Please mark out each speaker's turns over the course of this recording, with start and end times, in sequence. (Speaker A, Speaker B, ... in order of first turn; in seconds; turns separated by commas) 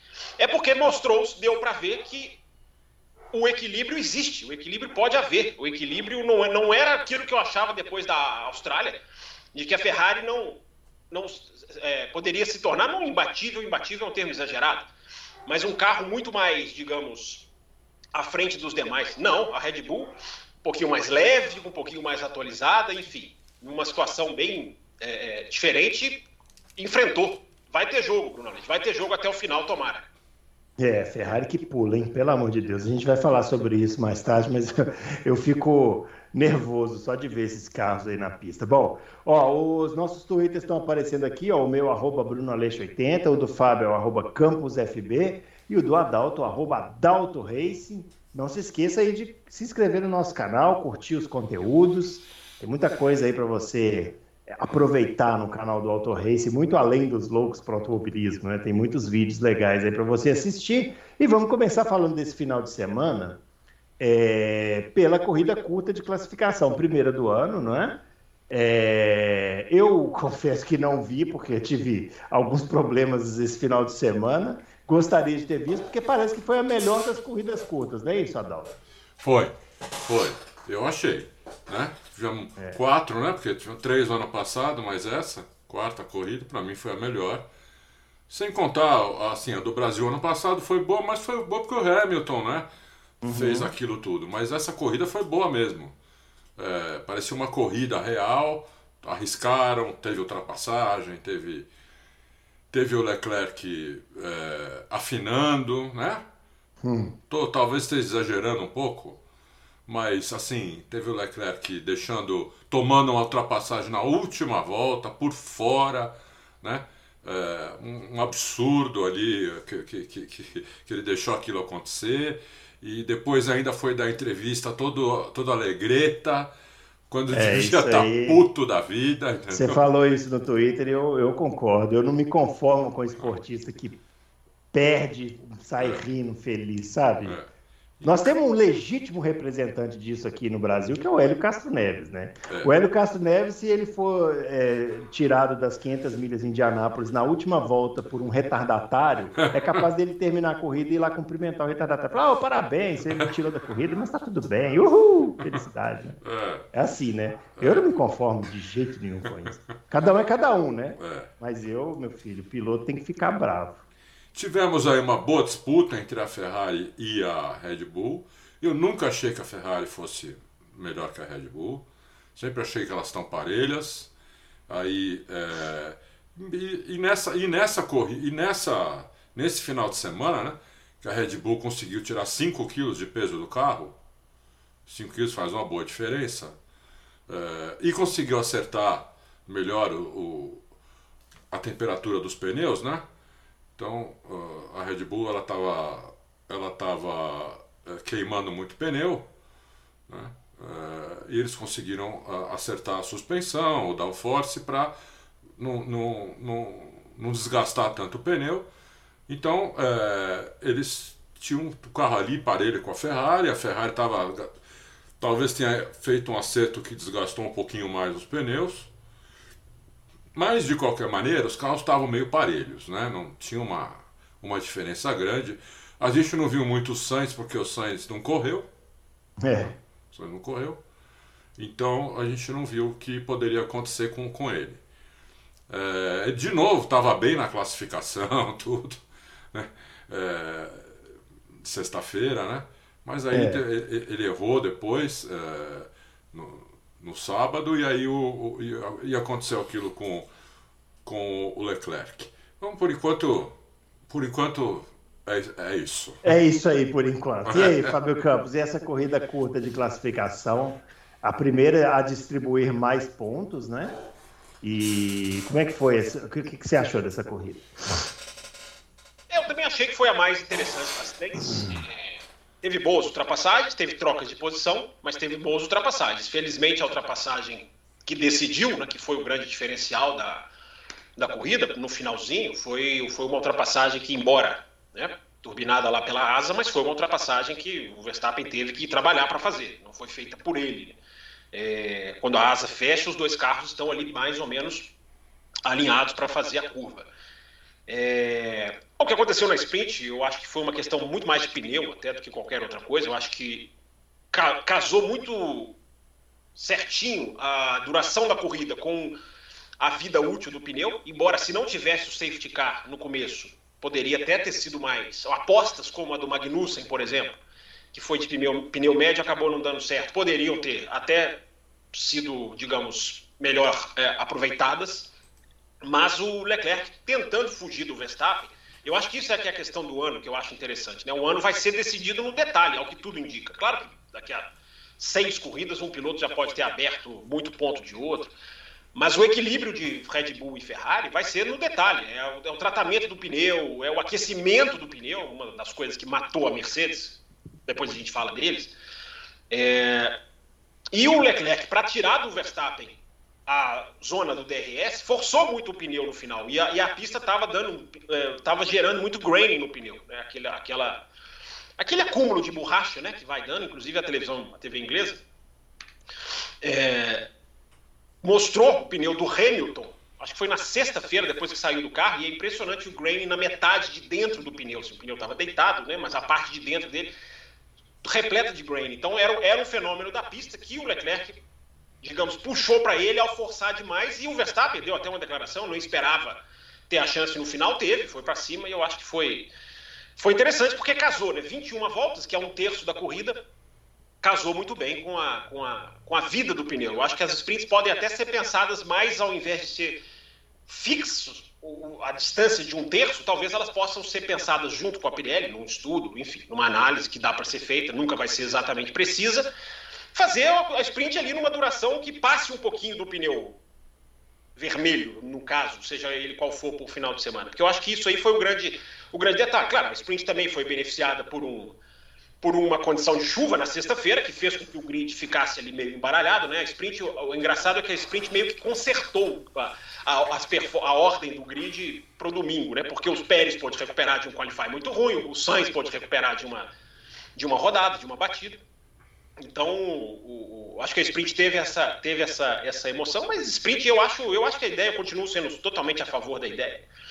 Speaker A: 0.4-2.4, Speaker A: 3.3-9.0, Speaker A: 9.5-14.9, Speaker A: 15.5-17.5, Speaker A: 18.1-30.1, Speaker B: 30.8-63.4, Speaker B: 64.0-78.8, Speaker C: 79.2-87.5, Speaker C: 88.3-92.7, Speaker B: 93.2-93.7, Speaker C: 93.2-96.0, Speaker C: 96.6-101.7, Speaker C: 102.7-106.2, Speaker B: 106.8-107.2, Speaker C: 107.3-109.2, Speaker C: 109.9-126.5, Speaker C: 127.1-129.8, Speaker B: 127.3-128.4, Speaker B: 129.5-134.0, Speaker B: 134.7-137.4, Speaker C: 135.8-136.1, Speaker C: 137.2-137.5, Speaker B: 138.0-156.2, Speaker C: 156.2-156.7, Speaker B: 156.7-163.8, Speaker C: 157.6-157.8, Speaker C: 161.0-161.3, Speaker C: 164.3-171.8, Speaker C: 172.4-174.1, Speaker C: 174.7-184.0, Speaker C: 184.9-186.6, Speaker C: 187.3-190.6, Speaker C: 191.5-193.0, Speaker C: 193.8-199.3, Speaker C: 200.1-204.9, Speaker C: 205.6-208.7, Speaker C: 209.3-214.5, Speaker C: 215.2-218.9, Speaker C: 220.3-228.7, Speaker B: 229.4-229.7, Speaker C: 230.1-230.8, Speaker C: 231.6-234.8, Speaker C: 235.7-239.0, Speaker C: 239.5-240.9, Speaker C: 241.6-250.3, Speaker B: 243.3-243.6, Speaker C: 251.1-253.6, Speaker C: 254.1-256.2, Speaker B: 256.2-263.9, Speaker C: 257.5-257.8, Speaker B: 264.6-267.7, Speaker A: 269.3-280.5, Speaker A: 281.2-291.0, Speaker A: 291.5-294.9, Speaker A: 295.7-297.1, Speaker A: 297.9-303.7, Speaker A: 304.3-305.8, Speaker A: 306.6-309.2, Speaker A: 309.8-317.4, Speaker A: 317.9-321.4, Speaker A: 321.9-325.1, Speaker A: 325.8-338.3, Speaker A: 338.9-348.7, Speaker A: 349.5-350.2, Speaker A: 350.9-361.1, Speaker A: 361.8-365.2, Speaker A: 366.6-367.3, Speaker A: 368.2-377.1, Speaker A: 378.0-381.4, Speaker A: 382.0-389.5, Speaker A: 390.2-393.4, Speaker A: 394.2-400.0, Speaker A: 400.7-409.5, Speaker A: 410.1-413.6, Speaker A: 414.6-421.8, Speaker A: 422.4-436.7, Speaker A: 437.4-438.6, Speaker A: 439.4-446.9